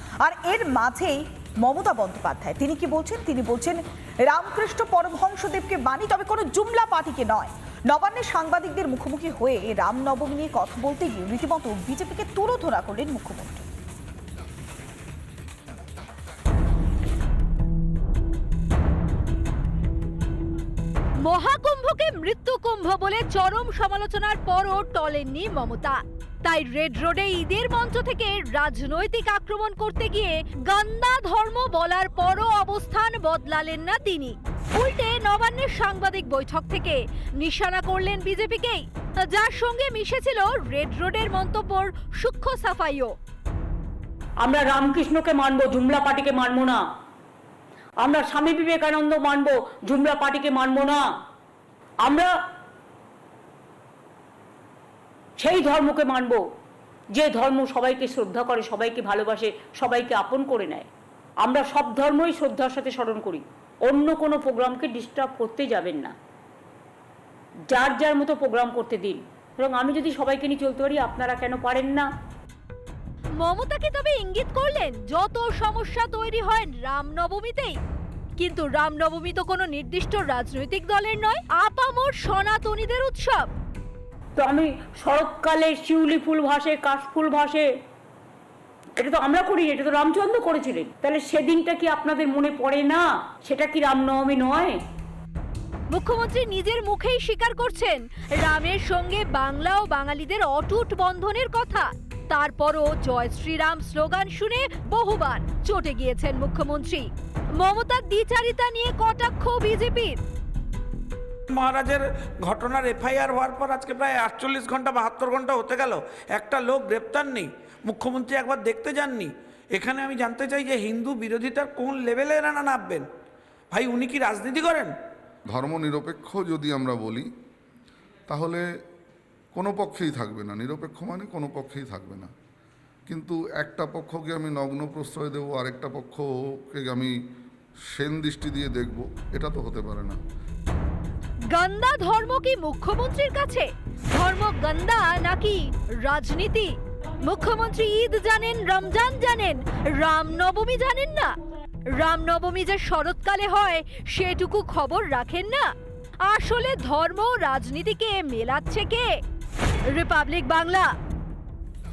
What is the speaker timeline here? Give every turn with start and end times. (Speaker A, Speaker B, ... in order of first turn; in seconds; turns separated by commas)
Speaker A: 0.2-13.6, Speaker B: 21.2-43.1, Speaker C: 44.4-46.8, Speaker C: 48.0-51.1, Speaker C: 52.0-52.3, Speaker C: 55.4-56.4, Speaker C: 57.2-60.9, Speaker C: 61.4-66.1, Speaker C: 67.7-72.1, Speaker B: 73.4-77.8, Speaker B: 78.4-83.5, Speaker C: 84.4-87.7, Speaker C: 89.0-94.8, Speaker B: 95.9-110.2, Speaker D: 111.5-123.1, Speaker D: 123.7-124.9, Speaker E: 125.5-127.3, Speaker E: 128.3-128.6, Speaker E: 129.5-132.3, Speaker E: 133.1-137.1, Speaker E: 137.9-140.2, Speaker B: 141.5-151.3, Speaker B: 151.9-155.7, Speaker B: 156.3-159.1, Speaker B: 159.9-160.9